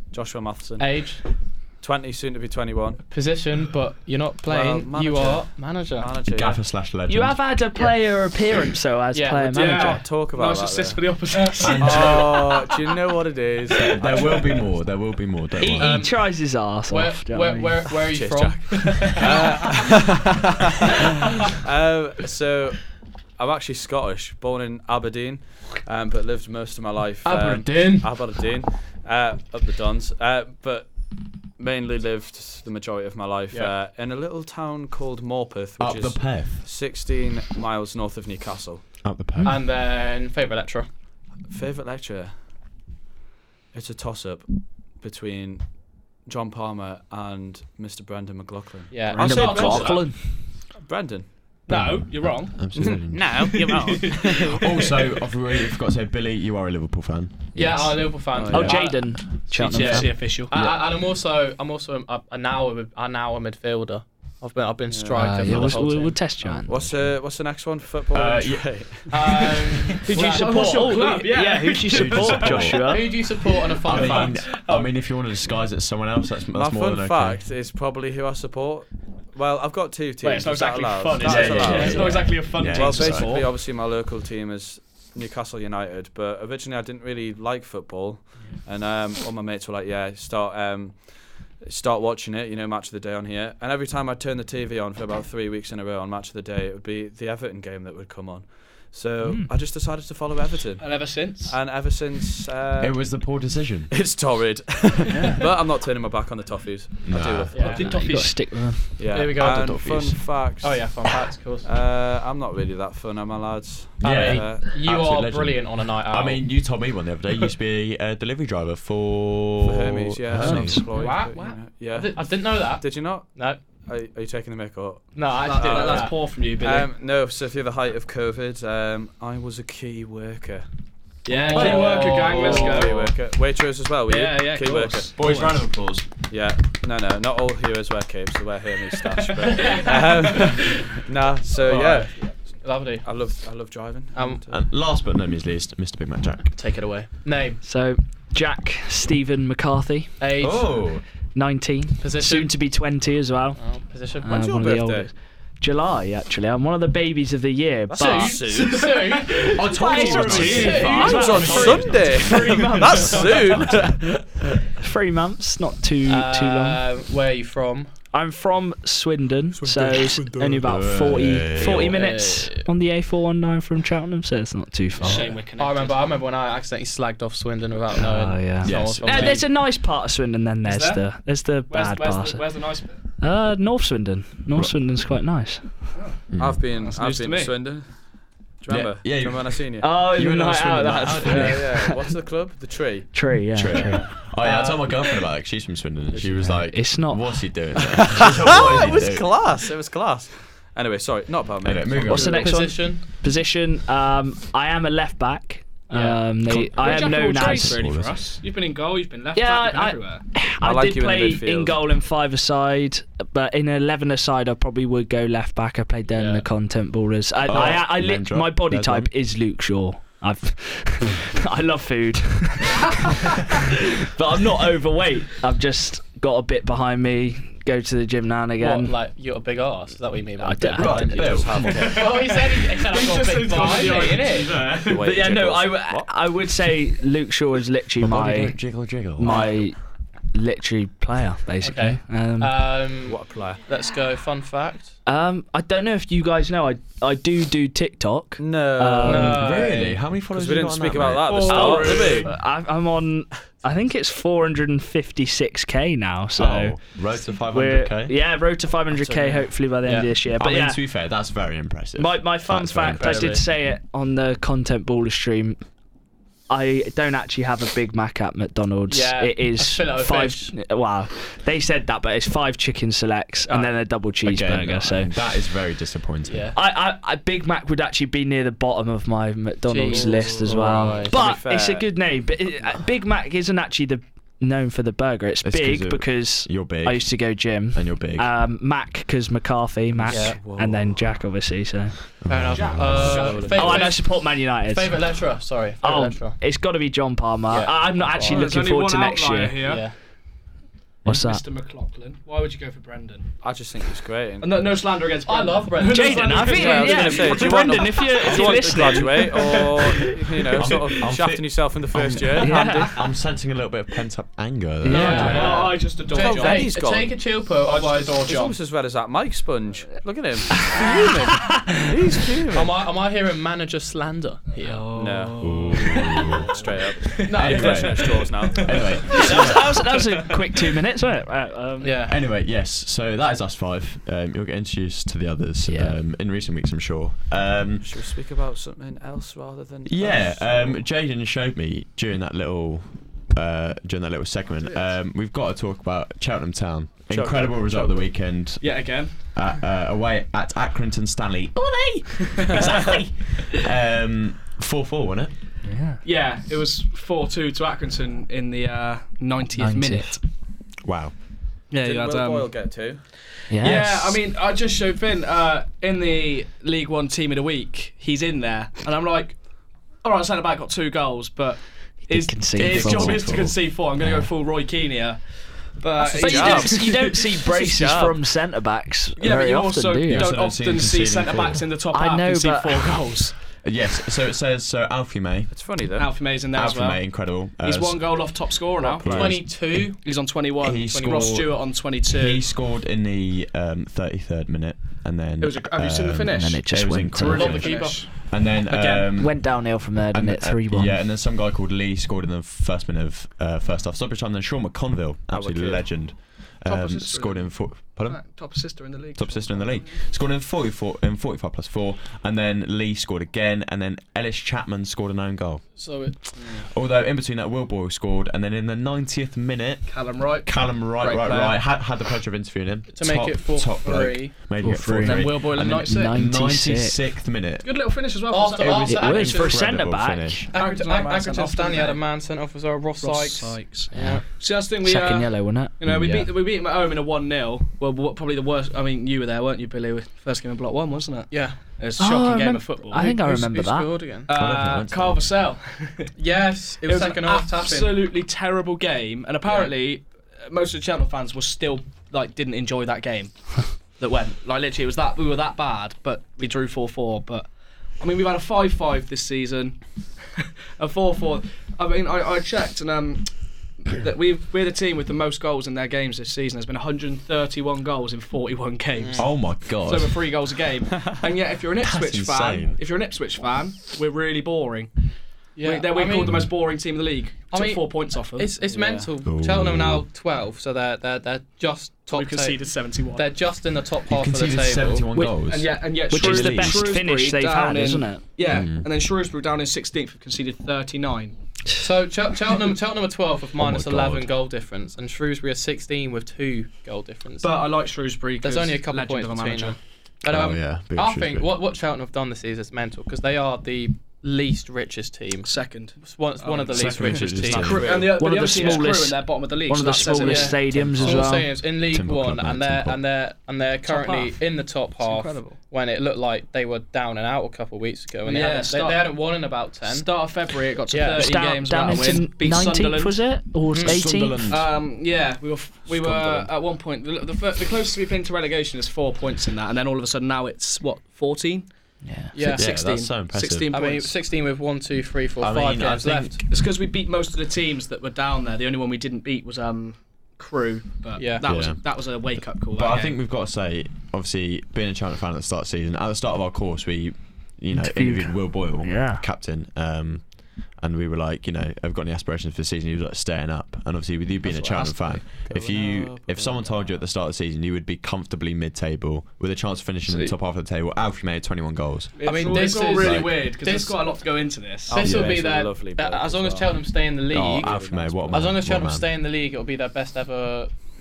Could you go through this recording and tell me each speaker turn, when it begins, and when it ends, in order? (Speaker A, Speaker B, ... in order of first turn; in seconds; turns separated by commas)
Speaker A: 0.1-3.0, Speaker B: 0.8-1.3, Speaker B: 3.1-6.1, Speaker A: 4.4-6.6, Speaker C: 6.3-7.5, Speaker D: 7.1-10.0, Speaker B: 9.1-10.0, Speaker E: 9.5-12.7, Speaker A: 9.8-11.1, Speaker C: 11.6-12.4, Speaker A: 11.8-14.7, Speaker C: 14.0-16.1, Speaker B: 15.6-19.3, Speaker D: 15.7-17.9, Speaker A: 18.1-38.9, Speaker E: 18.9-19.2, Speaker B: 27.2-28.3, Speaker C: 35.8-36.7, Speaker C: 39.0-39.6, Speaker B: 39.4-40.9, Speaker A: 41.5-42.4, Speaker A: 43.7-51.3, Speaker B: 48.9-50.0, Speaker D: 49.2-50.4, Speaker E: 51.7-54.4, Speaker C: 51.7-53.4, Speaker A: 52.7-54.6, Speaker C: 54.5-57.5, Speaker D: 57.5-60.4, Speaker B: 57.5-66.3, Speaker A: 58.3-59.0, Speaker E: 59.5-60.5, Speaker C: 59.6-60.8, Speaker A: 64.9-65.3, Speaker D: 65.1-66.7, Speaker C: 65.4-65.9, Speaker A: 66.6-69.3, Speaker C: 66.7-67.0, Speaker C: 68.1-69.9, Speaker B: 69.1-71.2, Speaker E: 70.0-75.0, Speaker D: 70.1-73.3, Speaker C: 71.9-73.0, Speaker B: 72.7-74.5, Speaker C: 73.8-77.4, Speaker A: 76.5-103.3, Speaker E: 80.2-83.5, Speaker C: 81.2-83.3, Speaker B: 81.7-82.2, Speaker D: 99.2-99.5, Speaker E: 100.8-101.6, Speaker C: 102.8-103.9, Speaker A: 103.9-107.9, Speaker C: 107.0-107.7, Speaker B: 107.5-107.8, Speaker E: 107.5-108.7, Speaker D: 107.8-109.2, Speaker A: 109.0-111.0, Speaker B: 109.1-109.8, Speaker C: 109.3-110.3, Speaker B: 110.6-111.7, Speaker A: 111.6-114.6, Speaker C: 114.0-120.8, Speaker B: 114.0-116.7, Speaker A: 119.6-130.7, Speaker D: 120.3-120.9, Speaker B: 120.9-123.6, Speaker B: 125.1-126.2, Speaker E: 125.4-126.9, Speaker E: 131.2-133.1, Speaker B: 131.3-133.0, Speaker A: 131.4-135.1, Speaker C: 131.5-132.0, Speaker E: 134.1-135.6, Speaker C: 135.1-136.1, Speaker A: 136.3-142.4, Speaker E: 139.4-140.8, Speaker B: 139.5-139.9, Speaker B: 141.6-143.3, Speaker A: 143.0-144.6, Speaker B: 144.1-144.4, Speaker C: 144.5-146.5, Speaker B: 146.5-147.6, Speaker D: 147.6-150.2, Speaker B: 150.2-150.9, Speaker C: 150.4-151.0, Speaker D: 151.3-153.6, Speaker B: 152.0-152.6, Speaker B: 153.6-154.4, Speaker D: 154.2-158.7, Speaker A: 154.2-155.1, Speaker A: 157.9-158.9, Speaker B: 157.9-161.9, Speaker E: 159.2-163.8, Speaker C: 159.4-162.2, Speaker D: 159.6-162.1, Speaker A: 160.8-164.3, Speaker C: 163.5-163.9, Speaker D: 164.7-166.8, Speaker B: 166.0-167.9, Speaker D: 168.1-175.3, Speaker C: 170.6-172.0, Speaker B: 171.5-172.7, Speaker E: 175.0-176.2, Speaker B: 175.1-179.4, Speaker D: 177.9-185.9, Speaker C: 178.6-179.4, Speaker E: 180.6-183.0, Speaker E: 185.9-187.6, Speaker C: 186.3-186.7, Speaker A: 186.4-189.9, Speaker C: 188.7-191.7, Speaker D: 189.8-192.0, Speaker A: 191.2-194.1, Speaker D: 193.1-194.2, Speaker C: 193.5-199.3, Speaker B: 194.4-195.0, Speaker D: 196.4-197.5, Speaker A: 197.9-202.4, Speaker C: 201.6-202.5, Speaker D: 202.1-207.9, Speaker B: 202.1-203.0, Speaker C: 206.5-208.3, Speaker E: 206.7-210.2, Speaker D: 209.3-228.9, Speaker A: 210.6-211.8, Speaker C: 217.4-219.1, Speaker B: 228.6-234.6, Speaker D: 230.4-231.7, Speaker C: 230.7-232.3, Speaker A: 231.1-232.1, Speaker E: 231.7-235.0, Speaker A: 234.7-236.1, Speaker D: 235.0-239.8, Speaker C: 238.0-239.6, Speaker B: 239.2-239.5, Speaker D: 240.3-242.6, Speaker B: 241.6-245.0, Speaker A: 243.0-243.6, Speaker D: 245.1-249.5, Speaker A: 248.4-249.8, Speaker B: 249.0-250.0, Speaker C: 249.3-251.7, Speaker A: 250.3-252.3, Speaker E: 251.2-252.3, Speaker D: 251.4-260.8, Speaker C: 256.4-258.2, Speaker A: 258.9-259.5, Speaker B: 259.8-260.1, Speaker C: 260.3-263.4, Speaker D: 261.9-265.6, Speaker B: 262.9-263.4, Speaker D: 266.5-275.2, Speaker B: 268.9-270.6, Speaker C: 274.2-276.5, Speaker B: 276.3-276.6, Speaker D: 276.5-292.4, Speaker B: 279.6-281.2, Speaker A: 279.9-281.9, Speaker C: 285.4-288.3, Speaker A: 289.9-291.2, Speaker B: 290.1-290.4, Speaker C: 292.2-293.3, Speaker B: 292.3-296.4, Speaker E: 292.5-294.0, Speaker A: 292.9-293.9, Speaker D: 293.5-295.1, Speaker D: 295.8-299.7, Speaker B: 297.5-298.5, Speaker E: 298.1-299.9, Speaker B: 299.6-299.9, Speaker D: 301.1-301.4, Speaker E: 301.1-303.3, Speaker A: 303.4-304.7, Speaker E: 304.4-308.7, Speaker B: 305.2-307.4, Speaker D: 305.8-309.8, Speaker A: 306.4-313.0, Speaker C: 310.6-315.5, Speaker D: 312.4-313.0, Speaker D: 314.8-315.6, Speaker B: 314.9-318.5, Speaker E: 314.9-316.7, Speaker A: 315.2-317.1, Speaker E: 317.6-318.5, Speaker A: 318.2-322.8, Speaker D: 320.7-321.7, Speaker B: 320.8-321.4, Speaker B: 322.5-324.8, Speaker E: 324.6-327.4, Speaker A: 324.9-329.2, Speaker C: 325.4-326.5, Speaker B: 327.2-328.2, Speaker C: 327.3-329.7, Speaker E: 329.1-329.3, Speaker D: 329.1-332.0, Speaker E: 329.9-330.5, Speaker B: 331.8-332.2, Speaker C: 332.1-337.9, Speaker D: 335.6-336.0, Speaker A: 337.8-340.8, Speaker C: 339.9-355.3, Speaker A: 347.1-348.1, Speaker E: 348.6-349.3, Speaker E: 352.1-352.7, Speaker D: 355.6-356.0, Speaker E: 356.0-360.2, Speaker D: 359.6-360.2, Speaker C: 360.8-361.2, Speaker E: 361.7-362.5, Speaker A: 361.8-363.0, Speaker E: 363.5-369.4, Speaker D: 363.5-364.2, Speaker E: 370.0-377.9, Speaker D: 372.1-374.3, Speaker C: 372.5-373.6, Speaker A: 376.0-378.1, Speaker D: 376.1-380.3, Speaker E: 379.2-383.4, Speaker C: 380.1-381.7, Speaker D: 381.9-383.1, Speaker C: 383.6-385.7, Speaker A: 385.5-386.1, Speaker E: 385.9-392.4, Speaker C: 386.5-389.9, Speaker B: 389.0-391.4, Speaker C: 390.5-408.4, Speaker E: 395.4-399.1, Speaker D: 396.3-397.6, Speaker B: 397.3-398.3, Speaker D: 399.0-401.0, Speaker A: 405.3-405.9, Speaker E: 406.6-410.0, Speaker C: 409.1-415.8, Speaker B: 415.7-416.4, Speaker E: 416.4-416.6, Speaker C: 416.6-427.7, Speaker E: 419.9-421.7, Speaker B: 422.9-426.2, Speaker D: 424.6-427.1, Speaker E: 425.0-425.7, Speaker E: 427.6-429.4, Speaker B: 428.3-429.7, Speaker C: 428.6-430.5, Speaker D: 428.9-430.5, Speaker E: 430.5-432.0, Speaker B: 430.5-434.2, Speaker E: 433.0-443.1, Speaker D: 433.9-434.2, Speaker D: 434.8-436.2, Speaker C: 435.8-436.2, Speaker B: 441.3-441.6, Speaker D: 442.0-443.9, Speaker B: 442.9-444.3, Speaker E: 444.3-446.1, Speaker C: 444.3-445.2, Speaker B: 446.2-448.0, Speaker E: 446.9-457.5, Speaker E: 458.0-474.9, Speaker B: 469.0-469.2, Speaker C: 469.2-470.3, Speaker C: 471.8-472.8, Speaker B: 475.6-476.5, Speaker E: 475.6-478.5, Speaker C: 476.2-476.5, Speaker B: 477.5-485.1, Speaker A: 478.6-479.1, Speaker C: 479.2-480.0, Speaker E: 482.1-483.3, Speaker C: 484.1-486.9, Speaker D: 485.1-485.4, Speaker E: 485.4-491.4, Speaker D: 486.0-488.2, Speaker C: 488.4-488.9, Speaker B: 491.8-497.5, Speaker C: 493.6-494.3, Speaker E: 497.4-499.8, Speaker B: 498.4-507.9, Speaker C: 500.2-501.5, Speaker E: 505.4-511.1, Speaker C: 506.7-508.1, Speaker A: 507.4-508.9, Speaker D: 508.1-511.5, Speaker B: 510.1-520.2, Speaker C: 511.7-513.0, Speaker E: 513.9-514.4, Speaker E: 515.0-515.6, Speaker E: 518.2-519.1, Speaker E: 519.8-523.4, Speaker B: 520.9-521.8, Speaker D: 521.1-524.5, Speaker B: 523.7-524.0, Speaker C: 523.8-524.7, Speaker E: 524.5-531.7, Speaker C: 525.9-526.5, Speaker D: 532.0-532.3, Speaker B: 532.3-532.7, Speaker E: 532.4-534.1, Speaker C: 532.5-533.7, Speaker B: 533.7-536.4, Speaker C: 535.4-536.4, Speaker E: 536.4-543.2, Speaker B: 541.1-541.5, Speaker C: 541.4-541.8, Speaker C: 542.7-563.4, Speaker D: 547.7-549.2, Speaker A: 554.5-557.0, Speaker E: 554.6-554.9, Speaker E: 562.1-565.0, Speaker B: 562.2-564.0, Speaker A: 564.9-566.8, Speaker B: 564.9-567.8, Speaker C: 565.0-565.4, Speaker C: 567.3-569.0, Speaker A: 567.4-568.5, Speaker B: 568.3-570.7